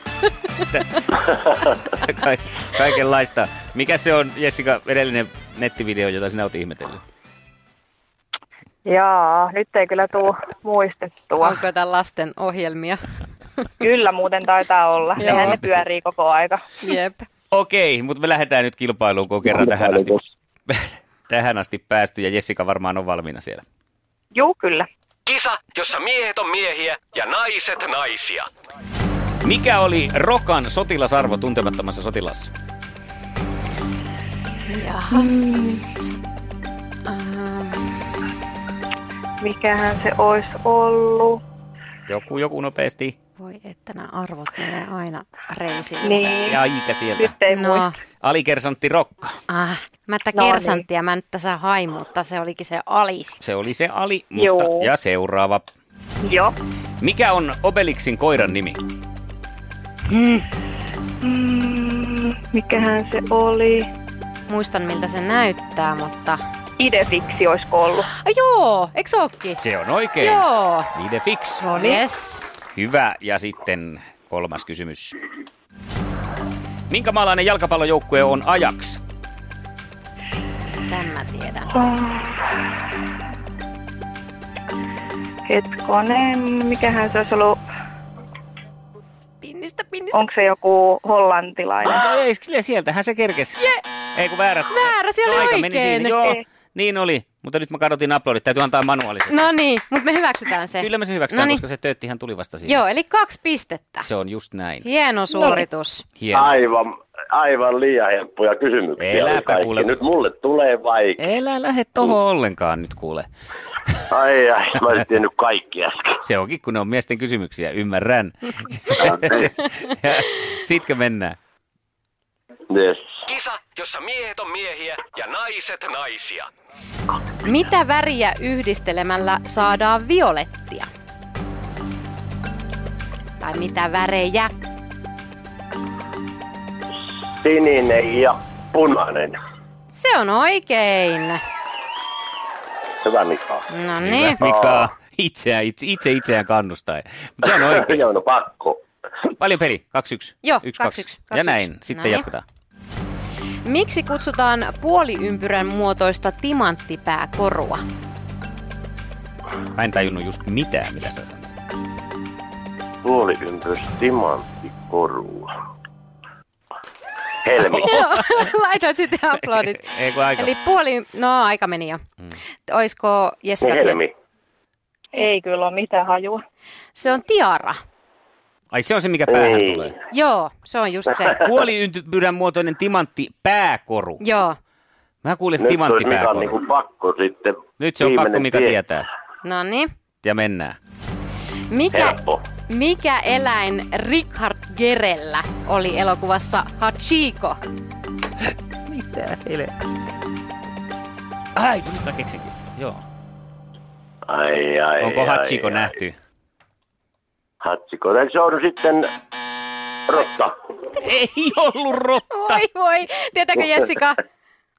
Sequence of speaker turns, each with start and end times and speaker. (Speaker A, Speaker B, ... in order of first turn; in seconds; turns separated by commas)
Speaker A: 0.7-7.0, Speaker B: 8.8-11.6, Speaker C: 11.4-13.0, Speaker B: 13.8-16.8, Speaker C: 15.2-15.6, Speaker A: 15.3-15.6, Speaker C: 16.8-17.3, Speaker A: 17.5-23.6, Speaker D: 19.6-20.1, Speaker B: 24.3-24.9, Speaker E: 25.3-28.5, Speaker A: 29.4-32.5, Speaker C: 34.7-36.1, Speaker B: 35.1-35.9, Speaker C: 37.1-38.0, Speaker B: 39.4-41.4, Speaker A: 42.1-43.2, Speaker C: 43.4-46.5, Speaker B: 46.0-46.6, Speaker A: 46.5-47.3, Speaker B: 47.2-47.9, Speaker C: 47.5-48.0, Speaker A: 48.2-49.4, Speaker C: 49.5-53.4, Speaker B: 50.3-50.8, Speaker A: 53.4-55.6, Speaker B: 54.4-54.9, Speaker B: 56.2-56.5, Speaker A: 57.0-58.8, Speaker C: 60.1-60.5, Speaker B: 61.2-63.9, Speaker C: 64.5-66.4, Speaker B: 66.8-68.1, Speaker C: 68.1-69.6, Speaker A: 69.6-71.6, Speaker C: 70.2-70.9, Speaker B: 71.6-72.0, Speaker C: 71.7-72.4, Speaker A: 72.8-75.2, Speaker A: 76.9-79.0, Speaker C: 80.9-81.9, Speaker B: 81.9-82.3, Speaker B: 85.5-87.6, Speaker C: 89.4-90.2, Speaker B: 90.1-92.1, Speaker A: 91.8-93.6, Speaker A: 94.2-99.5, Speaker C: 94.7-96.3, Speaker C: 99.3-101.6, Speaker A: 100.8-102.8, Speaker C: 102.7-104.1, Speaker A: 104.0-104.9, Speaker C: 104.8-106.0, Speaker A: 106.2-106.6, Speaker D: 106.3-111.2, Speaker A: 109.0-110.0, Speaker A: 111.2-113.3, Speaker D: 114.1-116.2, Speaker A: 116.2-121.4, Speaker D: 119.0-119.4, Speaker D: 122.7-123.0, Speaker E: 123.3-126.5, Speaker C: 127.4-130.9, Speaker C: 133.4-134.5, Speaker D: 137.4-139.3, Speaker C: 139.9-141.4, Speaker D: 143.0-143.7, Speaker C: 143.7-144.4, Speaker A: 144.0-148.1, Speaker D: 144.4-144.9, Speaker D: 147.6-148.8, Speaker A: 149.4-152.4, Speaker C: 150.4-152.3, Speaker C: 153.7-157.8, Speaker A: 159.8-161.6, Speaker D: 163.0-165.5, Speaker D: 167.4-168.0, Speaker C: 167.7-172.0, Speaker A: 169.7-170.5, Speaker C: 172.7-174.0, Speaker D: 173.6-174.1, Speaker B: 175.1-176.4, Speaker C: 176.9-177.8, Speaker A: 178.7-179.9, Speaker D: 179.3-179.9, Speaker C: 180.1-181.4, Speaker A: 181.2-184.2, Speaker C: 184.2-184.6, Speaker A: 185.2-186.5, Speaker D: 185.6-188.8, Speaker A: 187.8-189.1, Speaker C: 189.4-189.9, Speaker A: 190.2-190.8, Speaker C: 191.7-197.6, Speaker D: 191.9-192.4, Speaker A: 198.9-199.8, Speaker A: 201.6-203.0, Speaker D: 204.3-205.9, Speaker A: 205.0-206.2, Speaker D: 207.6-209.1, Speaker D: 210.1-210.5, Speaker A: 211.0-212.6, Speaker C: 212.3-214.2